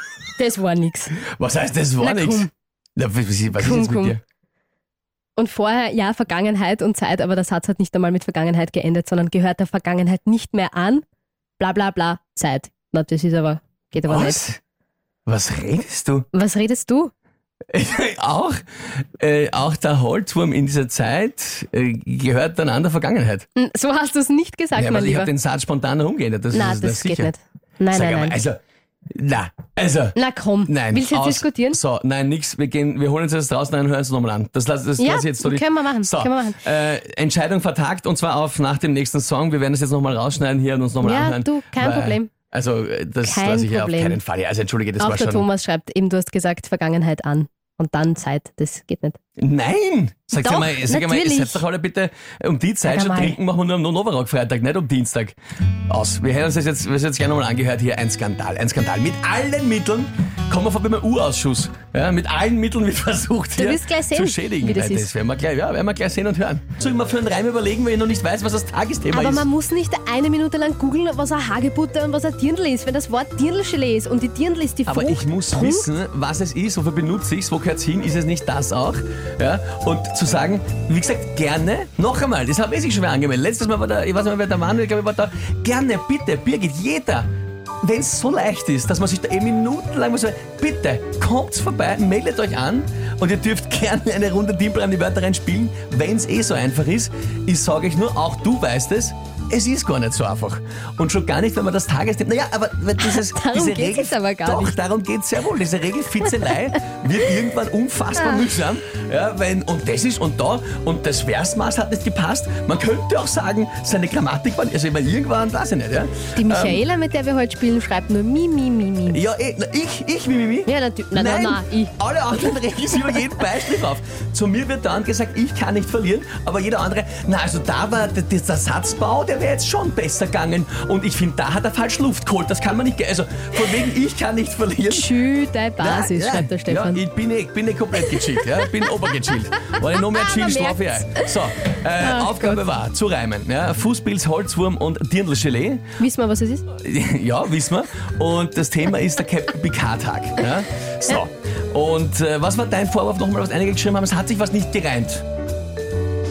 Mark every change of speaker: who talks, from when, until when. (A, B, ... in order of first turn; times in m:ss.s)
0:00.4-0:01.2 A
0:01.2-0:04.2 B
0:02.0-0:02.5 A
0:03.6-0:04.2 A
0:05.4-0:11.0 A
0:11.6-0:14.4 A
0:14.0-0:14.6 B
0:15.2-0:16.3 B
0:16.3-0:17.1 A
0:17.7-0:23.4 B
0:23.6-0:25.3 A
0:24.8-0:27.3 B
0:26.5-0:28.4 A
0:27.9-0:45.4 B
0:30.2-0:31.8 A
0:35.0-0:36.6 A
0:41.0-0:42.3 A
0:43.2-0:44.2 A
0:45.0-0:49.2 A
0:49.4-0:55.4 B
0:50.4-0:51.6 A
0:52.8-0:53.4 A
0:55.9-1:09.4 B
1:03.6-1:05.1 A
1:09.1-1:15.9 A
1:14.9-1:27.3 B
1:27.8-1:56.8 B
1:43.0-1:44.8 A
1:56.4-1:59.2 A
1:59.1-2:15.2 B
2:00.7-2:01.9 A
2:14.9-2:17.0 A
2:15.8-2:26.0 B
2:18.0-2:18.6 A
2:19.6-2:22.6 A
2:26.0-2:26.6 A
2:26.7-2:35.2 B